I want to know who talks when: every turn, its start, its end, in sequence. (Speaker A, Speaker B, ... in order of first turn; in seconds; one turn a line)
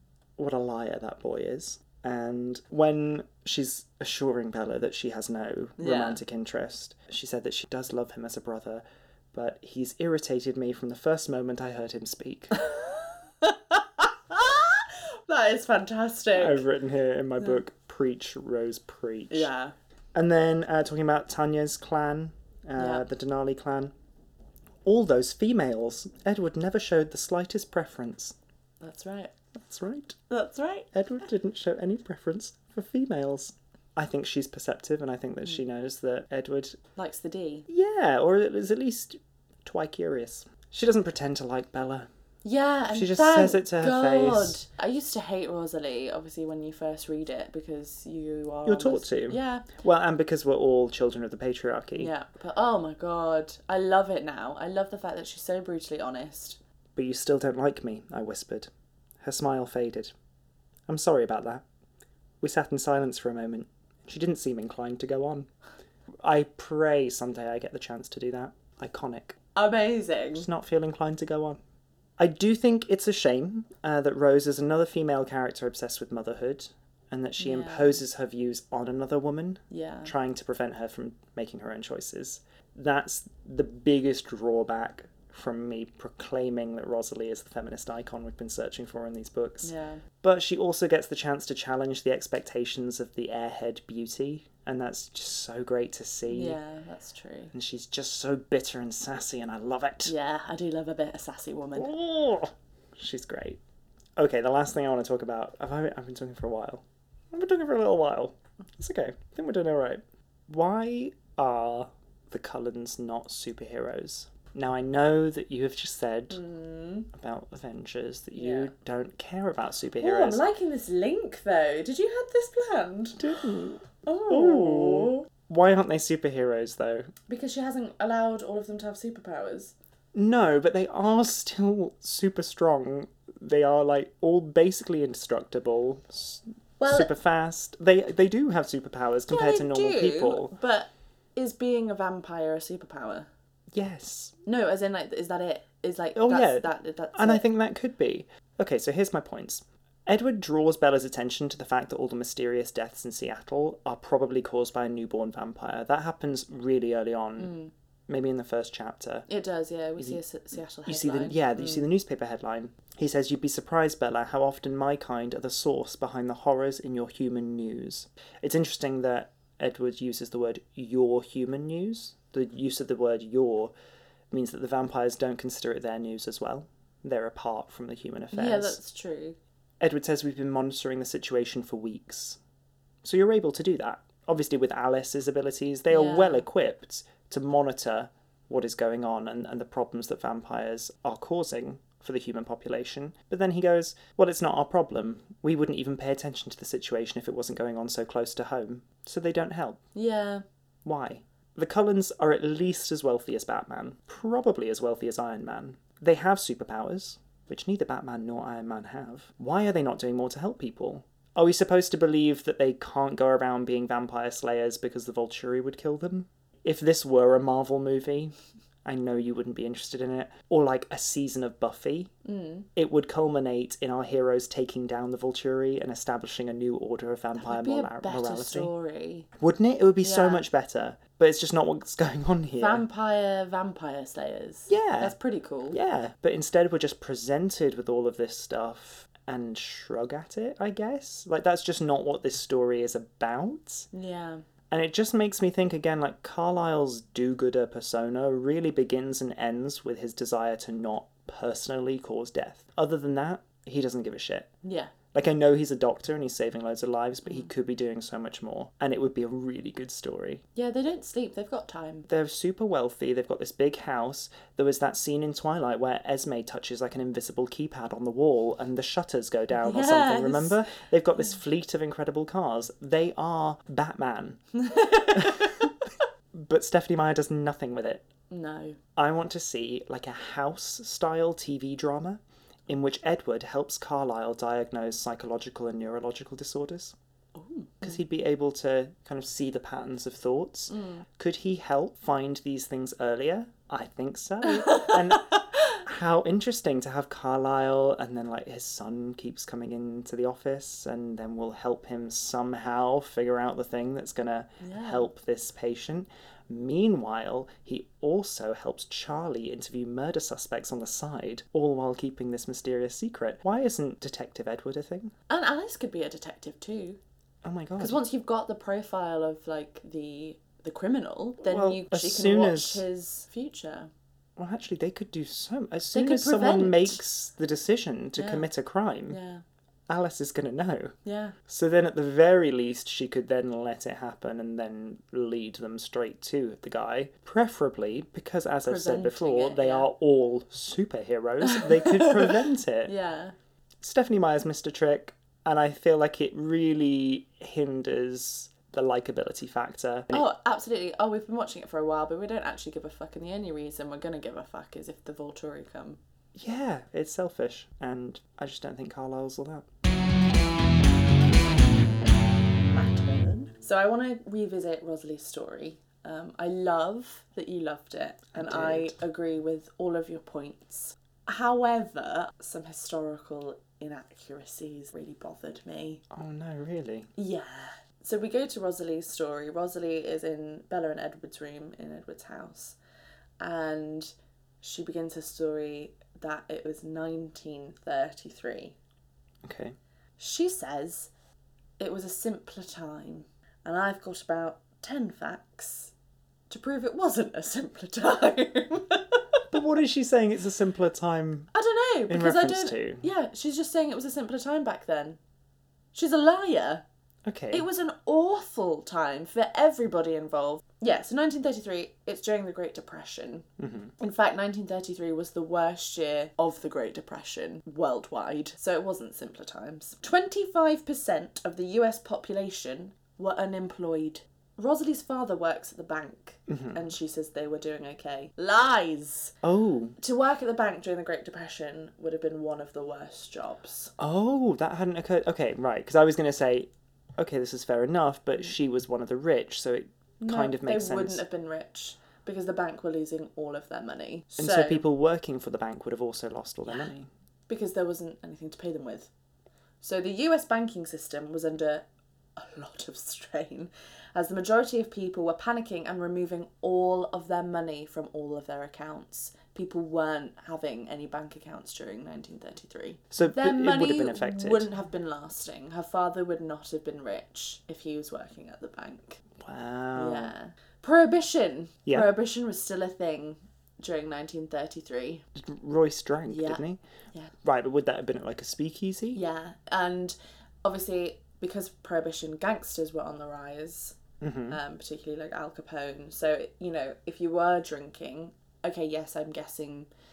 Speaker A: 0.4-12.6
Speaker B: 5.8-6.2
Speaker B: 12.6-16.6
Speaker A: 16.3-19.5
Speaker B: 19.3-19.7
Speaker A: 20.1-23.9
Speaker B: 22.8-23.1
Speaker A: 24.9-28.4
Speaker B: 28.8-29.3
Speaker A: 29.6-30.2
Speaker B: 30.3-30.9
Speaker A: 30.9-36.8
Speaker B: 37.0-37.7
Speaker A: 37.7-42.1
Speaker B: 42.4-49.7
Speaker A: 42.9-44.6
Speaker A: 48.6-52.1
Speaker B: 52.0-56.6
Speaker A: 57.0-58.7
Speaker A: 59.2-60.1
Speaker A: 60.9-61.6
Speaker A: 62.4-65.5
Speaker A: 66.2-69.4
Speaker B: 69.5-70.5
Speaker A: 70.3-71.6
Speaker A: 72.2-96.6
Speaker B: 77.4-78.0
Speaker B: 79.7-80.1
Speaker B: 89.6-90.0
Speaker B: 96.3-97.5
Speaker A: 97.5-100.1
Speaker B: 100.0-101.9
Speaker A: 101.8-103.6
Speaker A: 104.2-116.4
Speaker B: 116.3-117.1
Speaker A: 117.1-120.4
Speaker B: 118.4-118.7
Speaker B: 120.0-123.4
Speaker A: 123.2-127.1
Speaker B: 124.0-125.3
Speaker B: 127.3-129.7
Speaker A: 130.2-140.5
Speaker B: 136.8-137.1
Speaker B: 139.3-143.3
Speaker A: 143.7-144.3
Speaker B: 144.4-147.4
Speaker A: 146.2-157.6
Speaker B: 157.4-157.7
Speaker A: 158.1-159.3
Speaker B: 159.3-161.9
Speaker A: 160.9-173.7
Speaker A: 174.3-178.8
Speaker B: 178.3-179.4
Speaker A: 179.8-182.4
Speaker A: 183.0-199.8
Speaker B: 185.9-186.5
Speaker B: 199.9-200.4
Speaker A: 200.8-218.3
Speaker A: 218.8-222.1
Speaker B: 222.2-222.7
Speaker A: 222.8-228.7
Speaker B: 227.4-229.3
Speaker A: 229.4-232.8
Speaker B: 230.0-230.4
Speaker B: 232.6-235.8
Speaker A: 234.7-235.2
Speaker A: 235.7-243.9
Speaker B: 243.9-244.4
Speaker A: 244.7-254.5
Speaker B: 254.6-254.9
Speaker A: 255.1-260.4
Speaker B: 260.6-262.1
Speaker A: 262.1-274.4
Speaker B: 269.6-270.6
Speaker B: 274.6-275.7
Speaker A: 275.1-275.7
Speaker A: 276.4-278.1
Speaker B: 278.3-278.8
Speaker A: 279.0-286.9
Speaker B: 287.4-288.0
Speaker A: 287.8-315.1
Speaker B: 290.7-291.0
Speaker B: 294.4-295.7
Speaker B: 304.6-305.1
Speaker B: 315.3-317.0
Speaker A: 317.4-318.0
Speaker B: 317.8-323.9
Speaker A: 321.4-322.8
Speaker A: 324.4-329.2
Speaker B: 325.9-327.0
Speaker B: 328.2-328.5
Speaker B: 329.1-329.4
Speaker A: 329.9-331.0
Speaker B: 331.1-331.4
Speaker A: 331.5-342.9
Speaker B: 338.7-339.9
Speaker B: 341.4-343.3
Speaker A: 343.8-350.2
Speaker B: 350.1-356.0
Speaker A: 356.4-359.7
Speaker B: 362.6-376.0
Speaker A: 368.3-368.9
Speaker A: 376.1-377.1
Speaker B: 377.2-382.8
Speaker B: 383.4-388.8
Speaker A: 389.4-389.8
Speaker B: 390.2-391.1
Speaker B: 391.8-395.9
Speaker B: 396.5-399.4
Speaker A: 399.5-401.5
Speaker B: 401.5-405.2
Speaker A: 402.1-403.1
Speaker B: 405.9-406.8
Speaker A: 407.3-407.7
Speaker B: 407.5-413.5
Speaker A: 413.6-413.9
Speaker B: 414.0-429.4
Speaker A: 426.5-426.9
Speaker A: 429.4-430.0
Speaker B: 430.0-433.9
Speaker A: 434.0-441.2
Speaker B: 440.2-444.8
Speaker A: 444.4-447.1
Speaker B: 447.5-449.1
Speaker B: 449.8-451.9
Speaker B: 452.4-469.2
Speaker A: 463.1-464.7
Speaker A: 469.4-470.3
Speaker B: 469.9-475.2
Speaker A: 475.4-476.8
Speaker B: 476.3-476.6
Speaker A: 477.4-479.2
Speaker B: 479.1-484.0
Speaker A: 484.2-484.6
Speaker B: 484.5-489.9